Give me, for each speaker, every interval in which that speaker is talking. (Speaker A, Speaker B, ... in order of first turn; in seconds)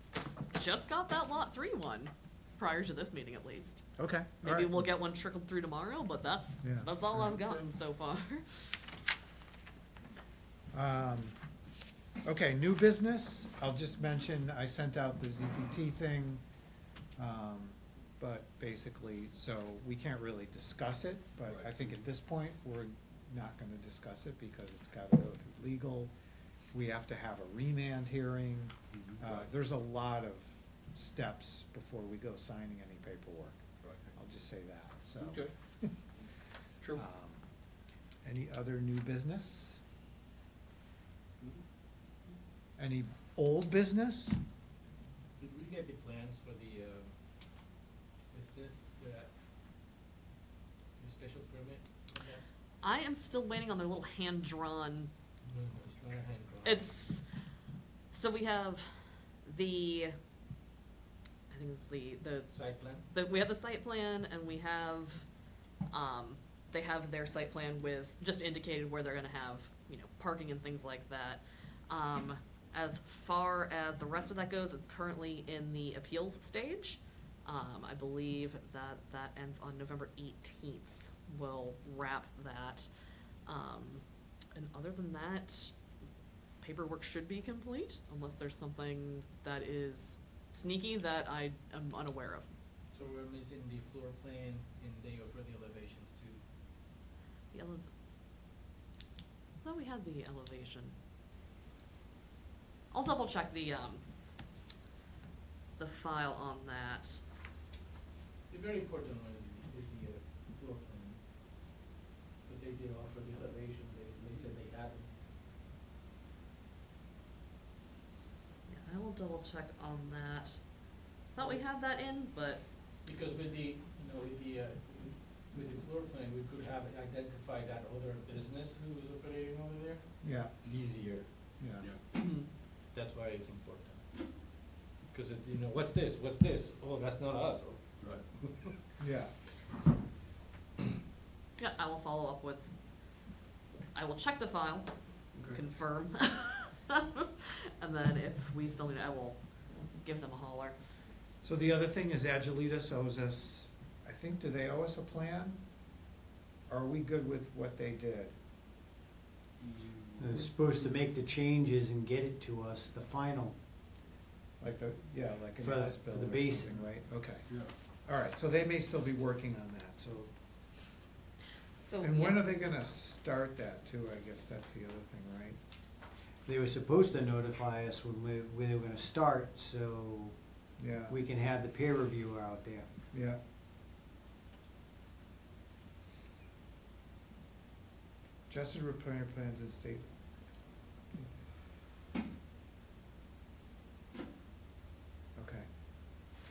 Speaker A: 0.5-3.8, 4.4-8.8, 52.8-55.1, 56.6-57.2, 58.1-58.8, 59.4-60.1, 61.5-65.3, 65.9-82.9, 83.5-85.7, 86.6-92.5, 97.5-97.8, 99.6-100.9, 102.9-104.0, 105.8-107.2, 118.7-122.6, 132.1-132.5, 141.6-142.7, 143.9-150.8, 171.8-172.5
Speaker B: 4.0-4.8, 6.6-7.2, 10.7-11.4, 12.2-16.4, 17.2-26.1, 26.7-33.6, 34.1-35.9, 36.9-37.5, 38.2-39.8, 42.8-44.4, 130.2-130.5, 131.6-131.9, 139.0-139.3, 151.4-155.6, 156.7-158.3, 164.6-167.5, 168.0-170.3, 172.0-175.6, 180.8-181.2, 183.1-183.4, 188.5-190.0, 191.1-191.4, 195.3-196.3
Speaker C: 21.5-21.9, 33.8-34.1, 35.2-35.5, 159.6-160.5, 167.5-167.7
Speaker D: 45.4-47.1, 48.3-49.3, 51.0-52.4, 55.4-56.9, 62.5-63.0, 92.9-96.4, 108.5-111.2, 112.4-115.1, 121.3-121.6, 122.8-131.6, 132.9-138.8
Speaker E: 160.2-163.6, 165.6-166.8, 176.4-180.3, 181.1-182.9